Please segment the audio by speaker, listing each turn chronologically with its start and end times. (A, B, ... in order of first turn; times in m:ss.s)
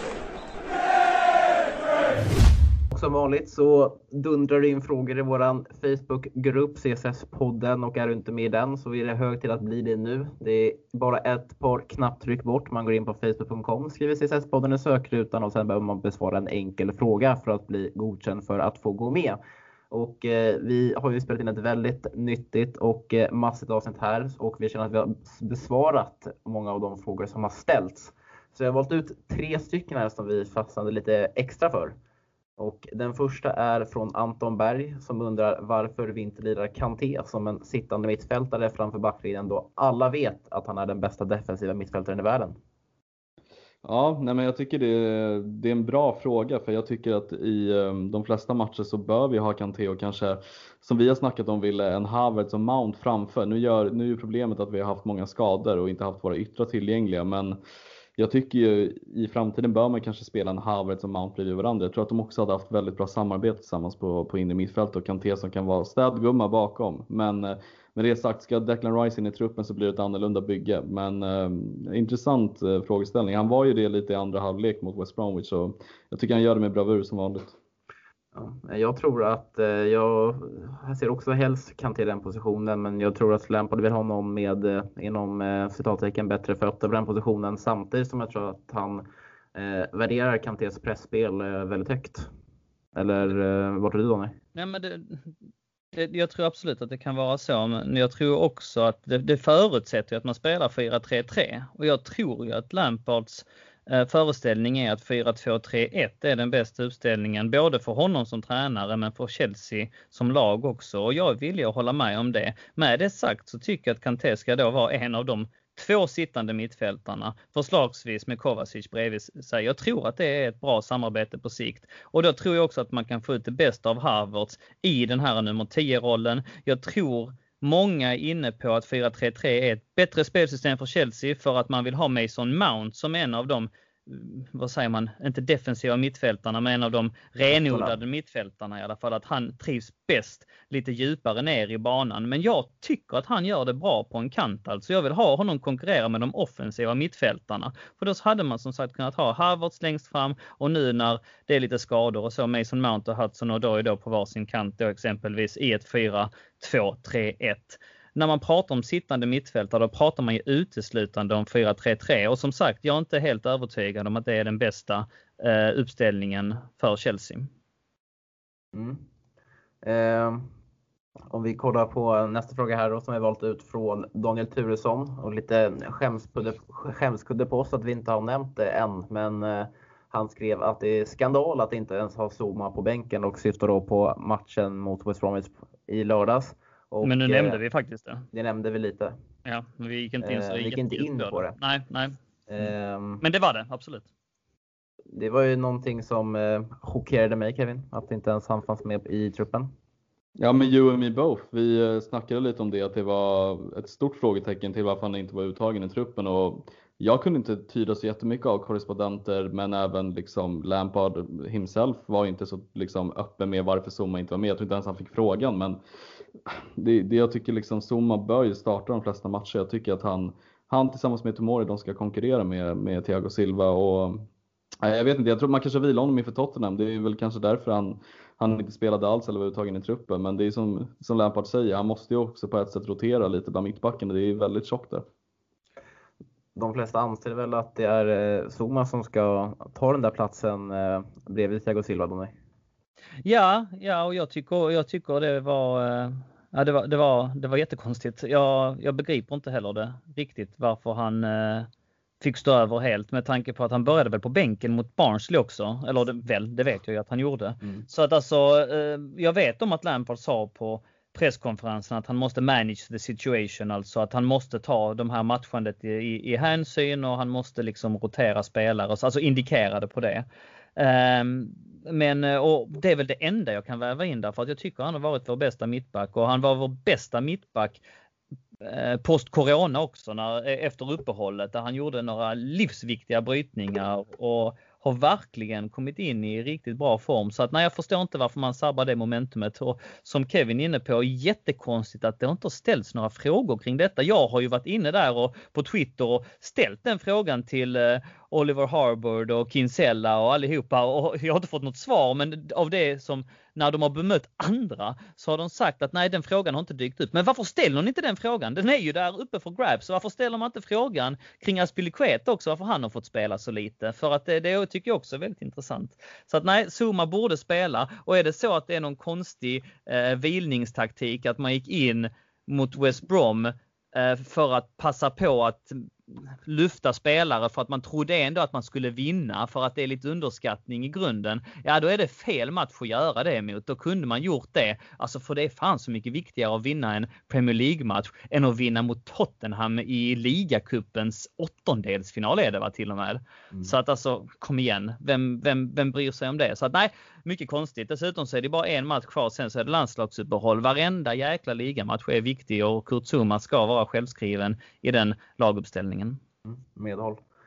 0:02.9-0:19.4 A
0:19.9-0:32.0 A
0:32.6-0:42.5 A
0:43.8-0:57.6 B
0:58.2-1:17.6 B
1:18.3-1:32.3 A
1:32.9-1:34.4 A
1:34.6-1:35.3 C
1:35.9-2:47.5 C
2:17.5-2:18.0 A
2:48.7-2:49.0 A
2:49.8-2:50.5 A
2:51.3-3:07.6 A
3:07.0-3:08.3 C
3:08.3-3:09.1 A
3:09.4-3:12.1 C
3:10.2-3:11.6 A
3:12.5-3:13.2 A
3:13.2-3:14.0 C
3:15.1-3:19.7 A
3:20.4-3:35.8 B
3:36.4-3:44.3 B
3:44.8-3:55.0 B
3:56.5-4:02.3 A
4:03.2-4:11.7 C
4:12.2-4:30.2 C
4:30.8-4:37.8 C
4:38.6-5:56.2 C
5:56.4-5:57.2 A